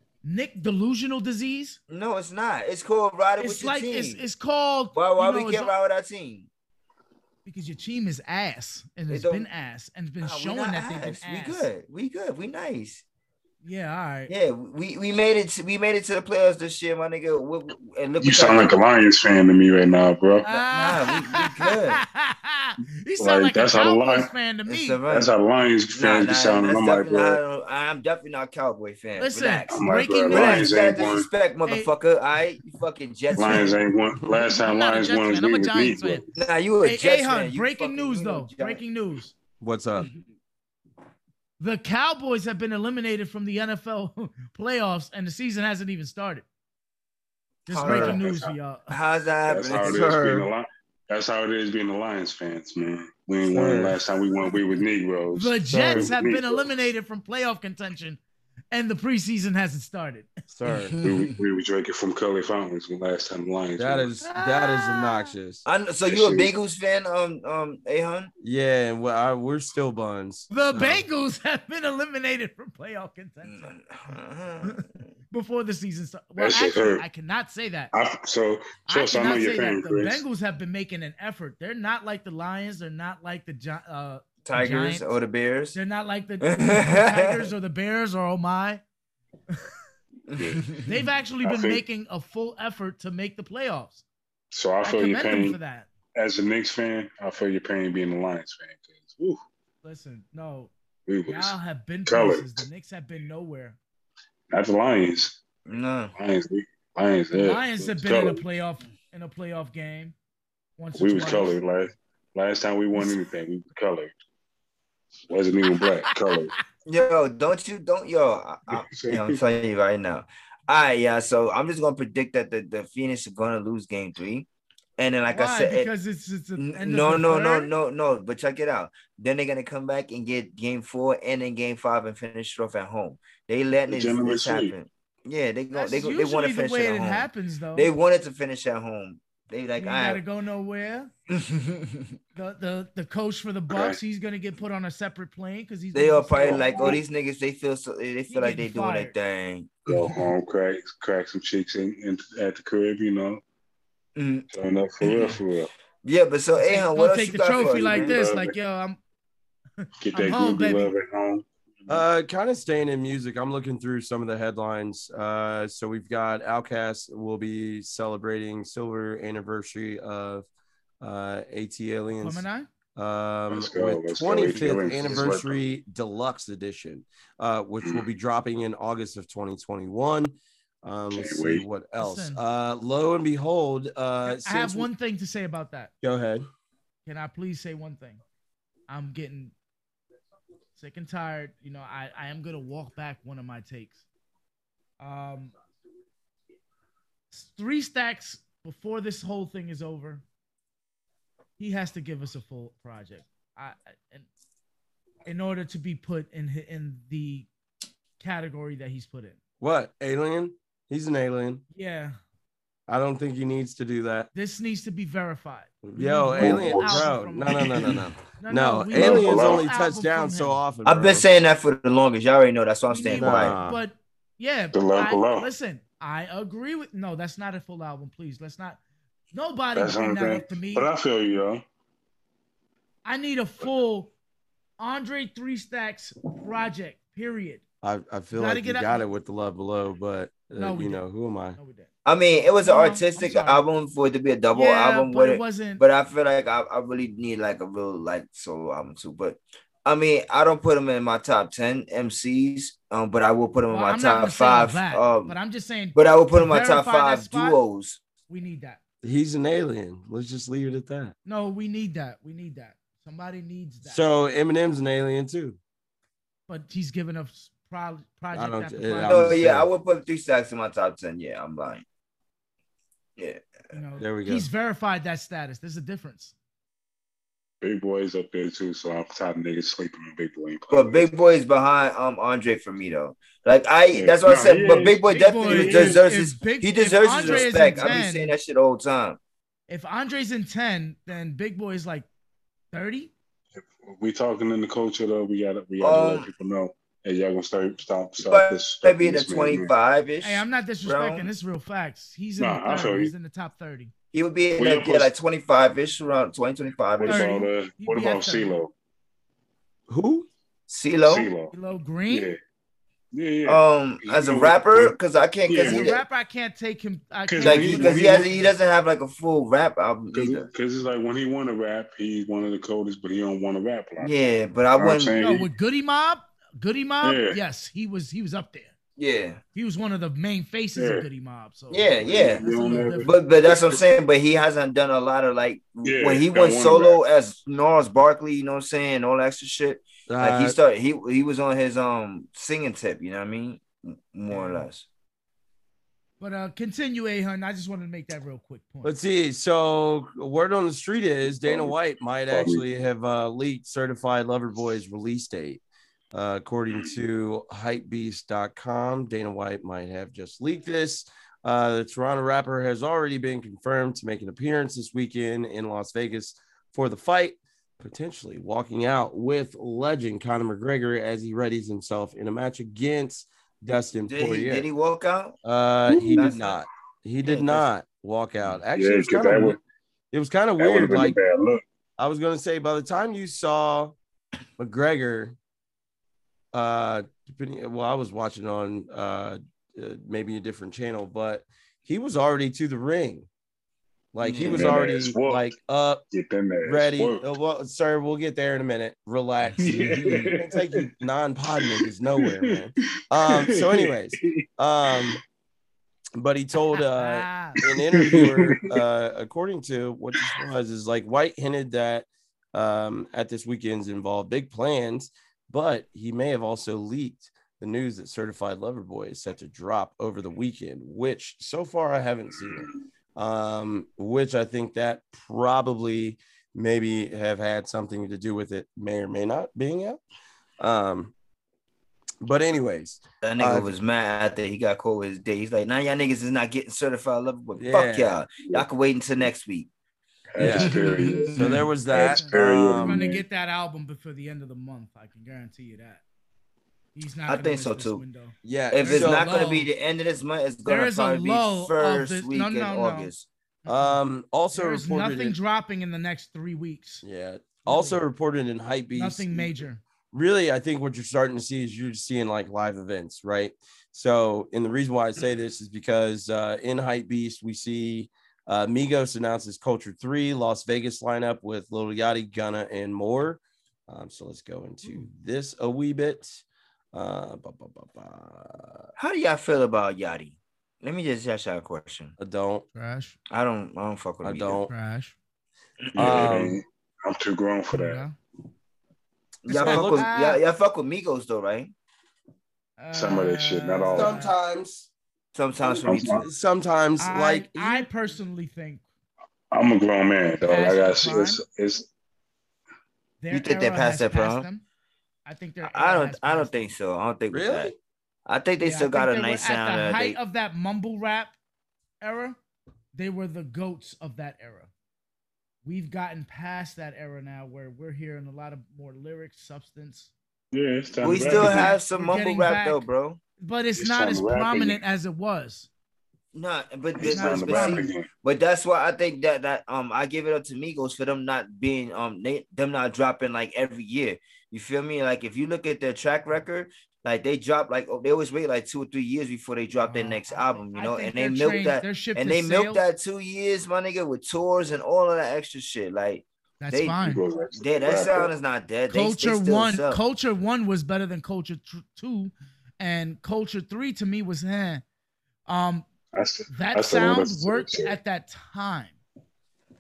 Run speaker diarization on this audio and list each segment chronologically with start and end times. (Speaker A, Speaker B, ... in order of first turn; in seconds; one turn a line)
Speaker A: 0.2-1.8
Speaker B: 1.9-4.2
Speaker A: 3.4-5.7
Speaker B: 4.9-6.5
Speaker A: 7.5-11.7
Speaker B: 9.1-9.5
Speaker B: 10.2-13.0
Speaker A: 13.6-14.3
Speaker B: 14.3-18.7
Speaker C: 18.2-20.5
Speaker A: 20.4-25.0
Speaker B: 20.5-22.0
Speaker C: 23.2-24.3
Speaker B: 24.7-25.3
Speaker C: 25.1-27.4
Speaker B: 25.9-33.8
Speaker A: 29.2-31.0
Speaker C: 29.7-31.3
Speaker A: 31.6-31.9
Speaker C: 33.4-36.2
Speaker A: 33.4-36.2
Speaker B: 36.4-38.8
Speaker A: 36.8-39.3
Speaker D: 39.6-40.1
Speaker A: 41.6-46.4
Speaker A: 47.7-49.0
Speaker B: 47.7-48.2
Speaker C: 47.7-48.5
Speaker B: 48.9-50.5
Speaker C: 49.5-56.7
Speaker D: 53.5-54.0
Speaker A: 55.3-58.2
Speaker D: 55.7-56.1
Speaker A: 58.7-60.8
Speaker D: 60.5-61.0
Speaker B: 61.0-61.4
Speaker C: 61.0-64.1
Speaker D: 63.8-65.6
Speaker A: 64.2-65.3
Speaker B: 65.7-68.3
Speaker C: 66.1-66.5
Speaker D: 68.4-71.0
Speaker A: 70.5-73.7
Speaker B: 73.4-75.0
Speaker A: 74.6-77.9
Speaker C: 76.4-77.0
Speaker C: 77.9-80.2
Speaker A: 78.9-85.1
Speaker B: 84.5-85.8
Speaker A: 85.7-88.8
Speaker B: 86.4-87.5
Speaker B: 90.3-90.8
Speaker C: 90.3-90.8
Speaker A: 90.8-94.0
Speaker C: 91.4-91.8
Speaker C: 94.5-95.6
Speaker A: 94.8-95.9
Speaker C: 96.2-99.4
Speaker A: 99.8-100.7
Speaker C: 101.1-102.5
Speaker A: 101.3-103.8
Speaker C: 104.5-105.4
Speaker B: 105.7-106.1
Speaker C: 106.2-108.4
Speaker A: 107.3-110.2
Speaker A: 110.8-111.6
Speaker C: 111.0-114.2
Speaker C: 115.3-116.5
Speaker A: 115.7-116.6
Speaker B: 116.9-124.5
Speaker C: 118.7-119.4
Speaker B: 125.0-125.9
Speaker A: 125.3-127.7
Speaker B: 126.6-140.2
Speaker C: 133.9-134.7
Speaker A: 135.7-137.9
Speaker A: 139.8-141.1
Speaker B: 141.3-142.1
Speaker A: 142.4-147.0
Speaker C: 143.7-144.0
Speaker B: 145.9-150.1
Speaker C: 146.4-147.0
Speaker A: 148.3-149.2
Speaker C: 149.9-153.4
Speaker B: 154.2-154.5
Speaker C: 154.5-155.7
Speaker B: 155.0-155.4
Speaker B: 156.0-158.3
Speaker A: 156.6-159.0
Speaker C: 157.5-158.6
Speaker A: 159.8-160.9
Speaker C: 160.0-162.0
Speaker D: 161.9-170.5
Speaker D: 171.0-172.4
Speaker A: 172.2-172.7
Speaker D: 172.9-184.9
Speaker C: 173.5-175.6
Speaker C: 181.1-181.7
Speaker A: 181.9-182.4
Speaker A: 184.2-185.9
Speaker D: 186.0-186.5
Speaker A: 187.1-188.2
Speaker A: 188.9-189.5
Speaker A: 190.8-194.0
Speaker A: 195.0-195.5
Speaker A: 197.3-200.2
Speaker A: 201.6-204.2
Speaker A: 205.2-207.5
Speaker A: 208.2-209.4
Speaker D: 209.6-211.6
Speaker A: 211.7-212.2
Speaker D: 212.9-214.3
Speaker A: 214.3-220.6
Speaker D: 215.8-221.2
Speaker C: 216.4-218.1
Speaker C: 218.9-219.7
Speaker B: 220.8-223.6
Speaker A: 222.9-228.8
Speaker D: 223.1-223.8
Speaker C: 224.7-225.5
Speaker A: 229.3-230.9
Speaker C: 229.8-231.6
Speaker A: 233.0-234.1
Speaker A: 234.8-237.6
Speaker D: 237.8-241.6
Speaker A: 238.3-239.1
Speaker A: 240.6-241.1
Speaker A: 241.6-241.9
Speaker B: 242.1-255.4
Speaker A: 242.6-243.7
Speaker A: 244.5-245.8
Speaker A: 253.7-257.6
Speaker B: 255.9-258.0
Speaker A: 258.3-258.8
Speaker D: 259.0-261.1
Speaker A: 261.2-264.0
Speaker D: 263.8-265.6
Speaker A: 266.5-269.5
Speaker D: 268.3-269.7
Speaker B: 269.0-271.9
Speaker B: 273.2-273.4
Speaker A: 273.7-276.3
Speaker D: 274.0-274.5
Speaker C: 277.6-281.1
Speaker B: 280.7-289.2
Speaker C: 283.9-286.0
Speaker A: 285.1-288.4
Speaker C: 287.2-288.0
Speaker A: 289.7-292.1
Speaker A: 292.7-293.1
Speaker C: 293.6-299.7
Speaker B: 295.8-296.3
Speaker B: 298.2-301.3
Speaker A: 300.2-303.9
Speaker C: 302.4-303.1
Speaker B: 304.1-307.3
Speaker C: 304.6-305.1
Speaker C: 307.0-308.7
Speaker A: 307.0-308.6
Speaker D: 309.9-310.3
Speaker B: 310.7-311.3
Speaker C: 311.1-311.5
Speaker A: 311.5-312.3
Speaker C: 312.1-312.4
Speaker C: 313.1-314.9
Speaker B: 313.5-316.0
Speaker C: 315.5-316.0
Speaker A: 315.6-318.5
Speaker C: 317.3-318.3
Speaker B: 317.4-320.5
Speaker C: 320.1-324.1
Speaker B: 324.0-325.2
Speaker C: 324.8-325.5
Speaker A: 325.2-328.7
Speaker C: 327.0-327.4
Speaker B: 329.0-329.4
Speaker A: 329.6-333.1
Speaker C: 330.8-331.1
Speaker B: 331.7-332.5
Speaker C: 332.0-333.7
Speaker B: 333.0-344.9
Speaker C: 335.8-337.0
Speaker D: 340.1-340.6
Speaker A: 344.3-344.7
Speaker A: 346.2-348.9
Speaker D: 348.8-355.6
Speaker C: 351.4-351.8
Speaker C: 352.3-352.6
Speaker D: 356.1-374.7
Speaker B: 374.1-375.4
Speaker D: 375.4-379.6
Speaker C: 375.9-376.5
Speaker B: 376.1-376.4
Speaker B: 377.2-377.7
Speaker C: 378.7-379.6
Speaker D: 380.1-381.2
Speaker C: 380.6-381.6
Speaker D: 382.0-383.9
Speaker D: 384.6-385.4
Speaker D: 386.5-393.3
Speaker D: 394.1-396.0
Speaker B: 394.2-394.9
Speaker C: 394.4-395.5
Speaker C: 396.1-397.3
Speaker D: 396.6-405.2
Speaker C: 399.6-400.9
Speaker B: 399.8-400.3
Speaker C: 401.6-402.7
Speaker C: 403.2-405.2
Speaker D: 406.2-430.0
Speaker A: 406.8-407.6
Speaker C: 407.6-408.8
Speaker C: 410.2-410.4
Speaker C: 422.4-422.8
Speaker D: 430.6-431.1
Speaker D: 432.2-433.7
Speaker B: 433.2-439.7
Speaker D: 437.6-438.2
Speaker C: 440.3-443.2
Speaker D: 440.4-443.0
Speaker B: 440.4-441.6
Speaker A: 441.1-446.0
Speaker A: 446.9-449.7
Speaker B: 447.3-448.0
Speaker D: 448.4-449.3
Speaker B: 448.7-453.3
Speaker A: 450.6-453.1
Speaker A: 453.6-454.0
Speaker D: 453.7-455.4
Speaker A: 454.5-457.0
Speaker D: 457.0-459.6
Speaker A: 457.6-458.0
Speaker A: 458.9-459.8
Speaker D: 460.1-476.4
Speaker D: 476.9-478.9
Speaker B: 479.0-482.1
Speaker D: 482.2-482.6
Speaker A: 482.7-483.2
Speaker B: 483.3-484.6
Speaker D: 484.2-484.7
Speaker A: 484.6-485.1
Speaker B: 485.9-486.3
Speaker C: 485.9-488.0
Speaker D: 485.9-486.6
Speaker A: 487.7-488.2
Speaker B: 489.5-491.7
Speaker D: 489.5-490.1
Speaker A: 489.6-490.4
Speaker A: 492.8-494.4
Speaker C: 492.9-494.2
Speaker D: 493.9-494.9
Speaker B: 495.3-496.3
Speaker D: 495.6-497.9
Speaker C: 495.9-496.3
Speaker A: 497.0-498.8
Speaker C: 499.5-501.9
Speaker A: 500.4-501.4
Speaker A: 503.2-504.6
Speaker B: 503.3-504.5
Speaker A: 505.3-506.6
Speaker B: 505.6-507.7
Speaker D: 507.3-507.8
Speaker B: 508.3-510.2
Speaker A: 508.6-511.4
Speaker A: 512.0-512.4
Speaker A: 512.9-514.7
Speaker A: 515.6-520.1
Speaker C: 520.5-521.8
Speaker B: 521.0-523.2
Speaker A: 521.1-522.9
Speaker A: 523.4-525.7
Speaker C: 523.8-524.8
Speaker B: 526.3-547.0
Speaker C: 527.0-528.1
Speaker A: 527.0-527.9
Speaker A: 539.8-542.8
Speaker A: 546.6-547.2
Speaker C: 547.0-548.3
Speaker B: 547.5-550.0
Speaker A: 548.9-554.8
Speaker A: 555.5-555.9
Speaker C: 556.1-558.0
Speaker A: 556.5-559.0